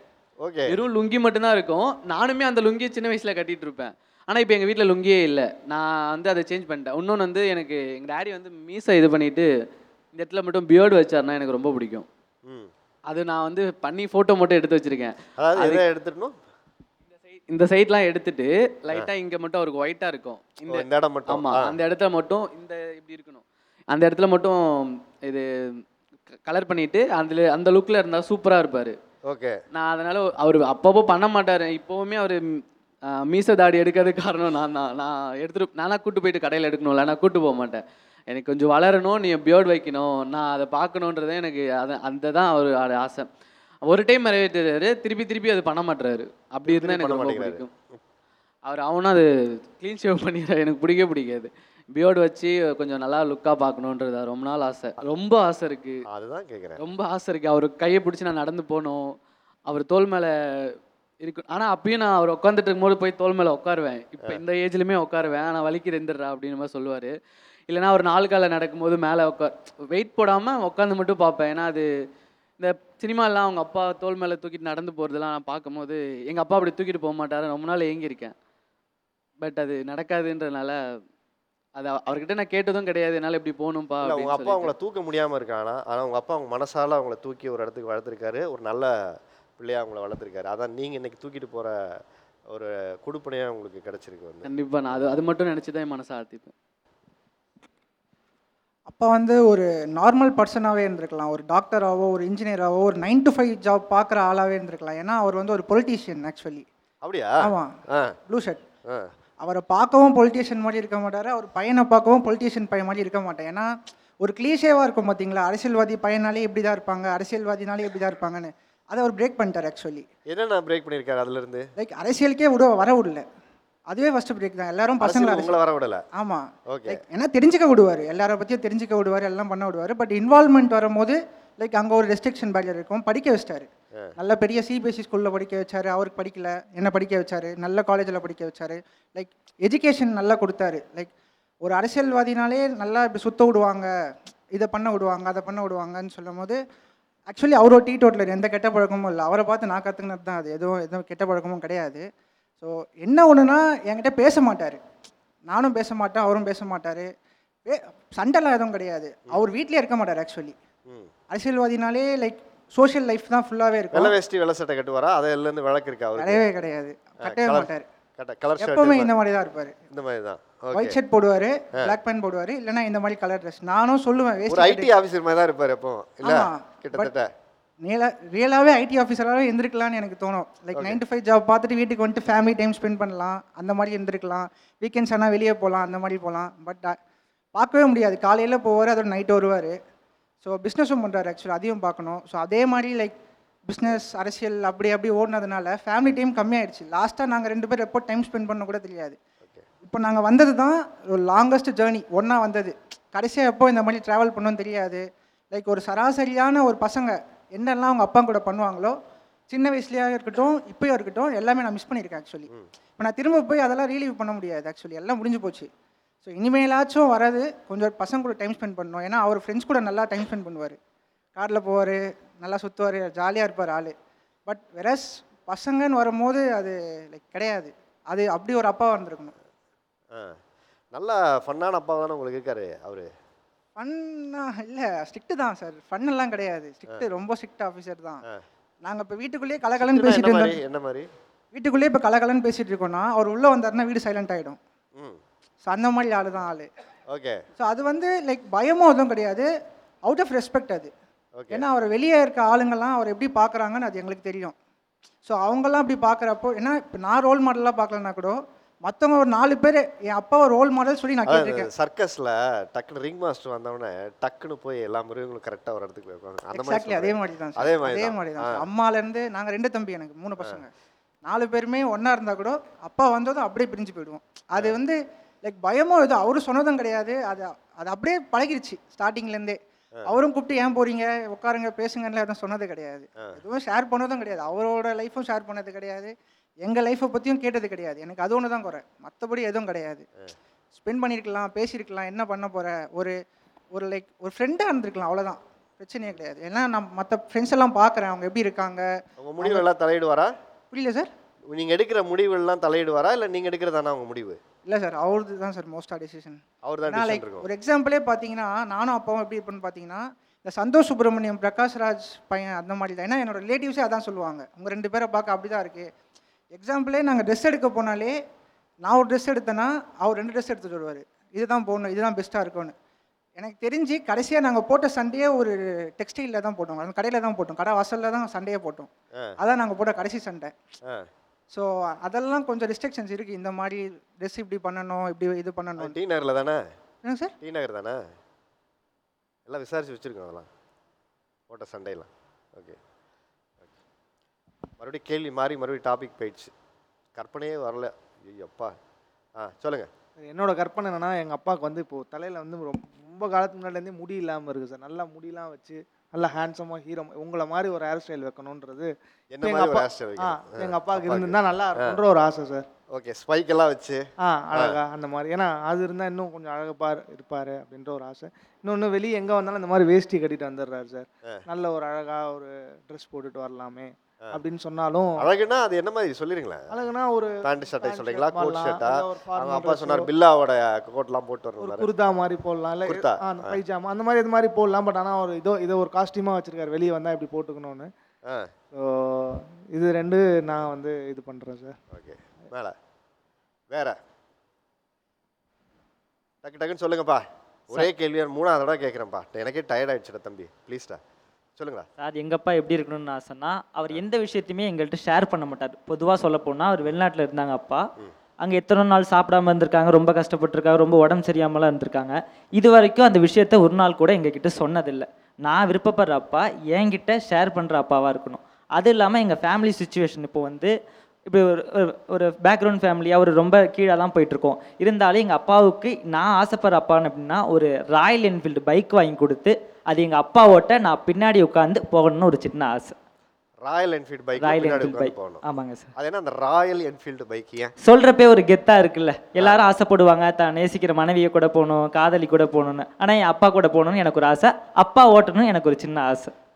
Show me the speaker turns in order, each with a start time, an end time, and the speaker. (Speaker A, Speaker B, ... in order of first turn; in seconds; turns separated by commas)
Speaker A: 0.4-0.8, Speaker B: 0.7-9.5, Speaker B: 10.1-12.1, Speaker B: 13.1-15.8, Speaker A: 15.4-16.3, Speaker B: 17.1-24.6, Speaker A: 20.7-21.7, Speaker B: 26.5-28.9, Speaker A: 29.3-29.6, Speaker B: 29.7-32.4, Speaker B: 33.2-43.3, Speaker B: 43.9-47.7, Speaker A: 46.6-48.0, Speaker B: 48.7-49.3, Speaker B: 49.8-55.9, Speaker A: 56.1-56.8, Speaker B: 56.8-59.0, Speaker B: 59.7-60.3, Speaker B: 61.2-67.1, Speaker B: 67.7-71.8, Speaker B: 72.6-78.3, Speaker B: 79.4-80.8, Speaker B: 81.8-84.7, Speaker A: 84.0-88.9, Speaker A: 89.6-91.7, Speaker A: 92.5-94.5, Speaker B: 94.4-96.5, Speaker C: 98.9-106.7, Speaker A: 107.0-108.1, Speaker C: 107.4-107.7, Speaker C: 108.3-108.6, Speaker C: 109.4-113.7, Speaker C: 114.2-120.0, Speaker A: 120.3-121.7, Speaker C: 121.8-123.2, Speaker C: 123.9-125.6, Speaker A: 125.0-126.0, Speaker C: 126.1-141.1, Speaker A: 126.7-127.0, Speaker C: 141.6-143.9, Speaker C: 144.5-146.6, Speaker C: 147.3-152.0, Speaker C: 152.6-154.8, Speaker C: 155.5-157.1, Speaker C: 157.7-160.5, Speaker C: 161.3-164.1, Speaker A: 163.9-166.4, Speaker C: 166.2-167.8, Speaker A: 167.2-169.1, Speaker C: 168.6-169.8, Speaker A: 169.9-171.0, Speaker C: 170.7-174.9, Speaker A: 174.5-177.3, Speaker C: 176.2-177.1, Speaker C: 177.8-186.9, Speaker A: 180.7-181.0, Speaker C: 187.5-189.7, Speaker C: 190.4-193.1, Speaker C: 193.7-199.2, Speaker C: 199.8-208.9, Speaker C: 209.5-215.7, Speaker C: 216.2-220.8, Speaker C: 221.3-223.9, Speaker C: 224.5-229.3, Speaker A: 230.9-233.1, Speaker C: 233.8-238.2, Speaker C: 238.8-240.6, Speaker A: 239.8-241.1, Speaker C: 241.5-244.6, Speaker C: 245.6-246.7, Speaker A: 247.1-247.4, Speaker C: 247.6-249.5, Speaker C: 250.1-250.9, Speaker A: 251.4-251.6, Speaker C: 251.5-254.5, Speaker C: 255.2-261.7, Speaker A: 261.3-268.4, Speaker C: 266.5-270.7, Speaker C: 271.2-290.0, Speaker C: 290.7-293.1, Speaker C: 293.7-298.9, Speaker A: 299.2-300.3, Speaker C: 300.7-301.1, Speaker A: 301.5-304.4, Speaker C: 304.6-315.9, Speaker A: 306.6-307.5, Speaker C: 316.5-318.1, Speaker C: 318.8-322.7, Speaker C: 323.4-330.5, Speaker C: 331.5-335.9, Speaker A: 335.8-336.6, Speaker C: 337.0-337.3, Speaker A: 337.4-338.0, Speaker A: 339.5-340.5, Speaker A: 341.5-342.8, Speaker A: 344.8-346.5, Speaker A: 347.2-348.7, Speaker A: 349.4-349.9, Speaker D: 350.2-358.9, Speaker A: 359.3-362.0, Speaker D: 359.4-362.6, Speaker A: 362.9-364.0, Speaker D: 364.2-375.2, Speaker A: 375.2-376.8, Speaker D: 376.7-380.1, Speaker A: 377.4-381.9, Speaker D: 381.6-387.9, Speaker A: 382.8-383.6, Speaker D: 388.7-391.7, Speaker A: 391.9-392.7, Speaker A: 393.7-393.9, Speaker A: 396.4-401.0, Speaker A: 401.6-401.9, Speaker E: 402.0-407.9, Speaker E: 408.4-420.7, Speaker E: 421.3-432.9, Speaker A: 433.6-435.4, Speaker E: 434.4-435.9, Speaker A: 436.0-437.7, Speaker E: 437.8-446.3, Speaker A: 439.4-439.6